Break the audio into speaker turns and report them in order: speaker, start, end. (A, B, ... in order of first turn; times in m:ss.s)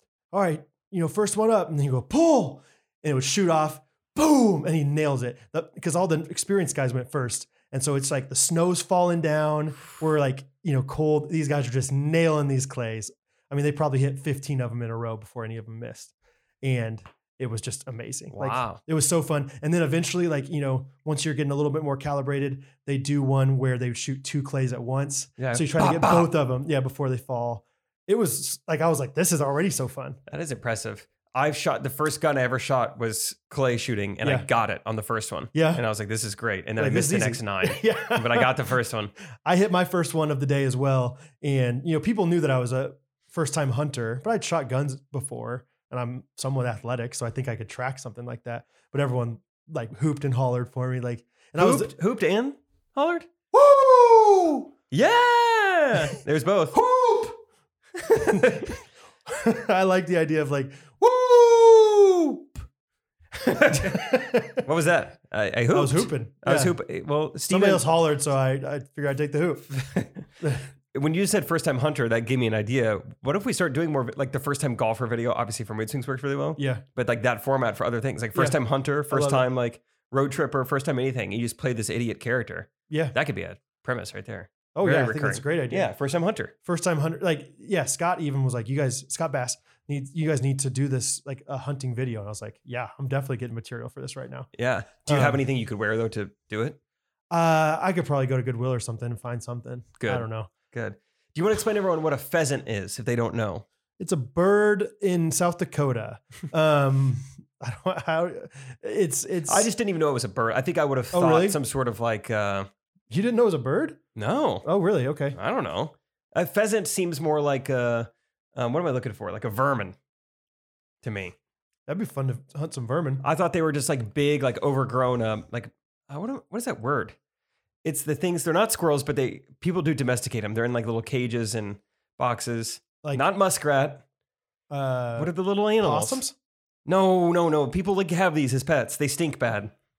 0:00.3-0:30.2 A
0:18.3-0:18.8 B
0:25.4-0:26.3 B
0:30.3-0:39.1 B
0:34.2-0:34.5 A
0:35.5-0:35.8 A
0:36.8-0:38.5 A
0:39.4-0:51.9 A
0:51.6-0:53.3 B
0:53.5-0:54.7 A
0:54.9-0:56.8 B
0:56.7-0:57.4 A
0:58.0-0:58.7 B
0:58.2-0:58.7 A
0:59.2-1:02.6 A
1:03.4-1:07.8 B
1:03.7-1:04.6 A
1:05.7-1:06.7 A
1:07.5-1:09.7 A
1:09.7-1:10.2 B
1:10.9-1:26.5 B
1:16.6-1:16.8 A
1:18.3-1:19.4 A
1:22.9-1:23.1 A
1:24.7-1:25.9 A
1:26.6-1:34.5 A
1:34.5-1:36.8 B
1:35.1-1:35.4 A
1:37.3-1:40.5 A
1:40.0-1:43.6 B
1:44.0-1:49.7 A
1:49.5-1:52.7 B
1:51.1-1:51.6 A
1:53.1-1:54.0 A
1:54.2-1:54.7 B
1:54.6-1:55.4 A
1:55.3-2:00.0 B
2:01.0-2:01.3 B
2:01.9-2:03.2 A
2:03.2-2:07.2 B
2:07.8-2:14.0 B
2:14.7-2:16.3 A
2:15.2-2:16.2 B
2:16.8-2:19.7 B